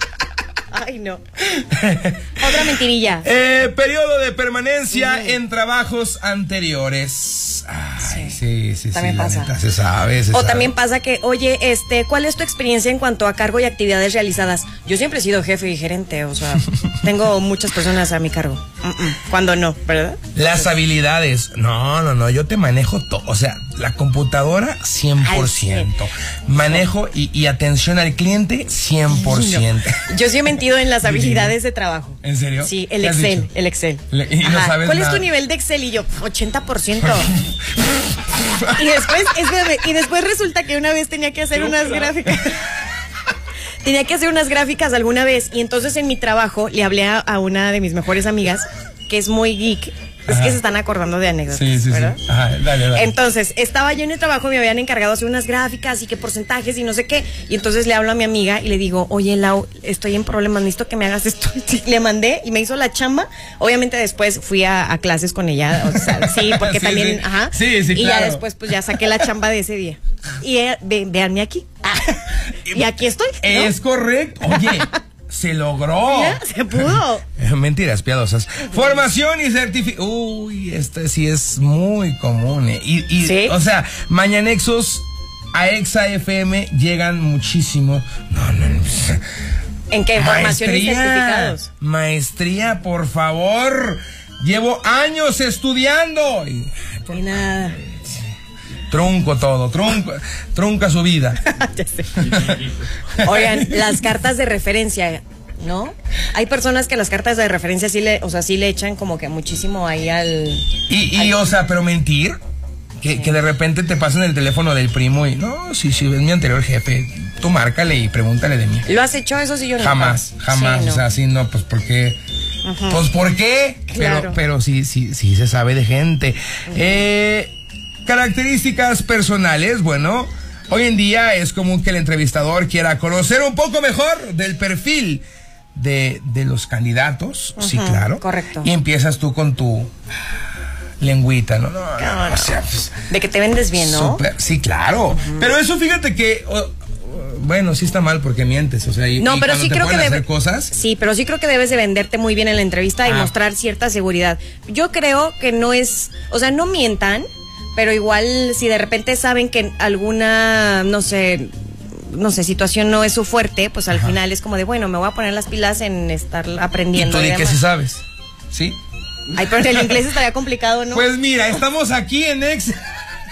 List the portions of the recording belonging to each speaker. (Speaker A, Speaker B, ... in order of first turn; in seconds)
Speaker A: 0.7-1.2, 2.4-3.3, 4.9-5.4, 8.0-8.4, 8.9-9.5, 10.3-20.2, 25.2-25.9, 29.1-37.3, 38.6-42.6, 43.8-52.2, 52.9-73.7, 74.5-75.0, 76.0-77.2, 83.2-83.5, 89.9-91.7, 97.1-97.8, 101.4-102.4, 103.2-111.4, 113.1-113.3, 118.8-121.0, 122.6-123.0, 123.9-124.4, 137.6-138.7, 142.0-144.2, 145.1-145.5, 149.2-167.6, 169.3-171.1
Speaker B: 1.6-2.6, 3.2-10.7, 20.3-30.1, 31.0-31.6, 32.2-33.5, 34.1-35.3, 37.0-37.5, 50.3-50.6, 51.5-53.1, 65.9-69.0, 73.4-89.2, 90.2-96.7, 98.9-101.4, 102.2-103.9, 110.9-112.4, 113.0-118.9, 119.8-122.2, 122.9-127.5, 128.1-135.2, 135.7-139.9, 141.0-143.0, 143.7-150.7, 153.1-153.3, 163.9-164.2, 166.9-168.8, 170.9-172.8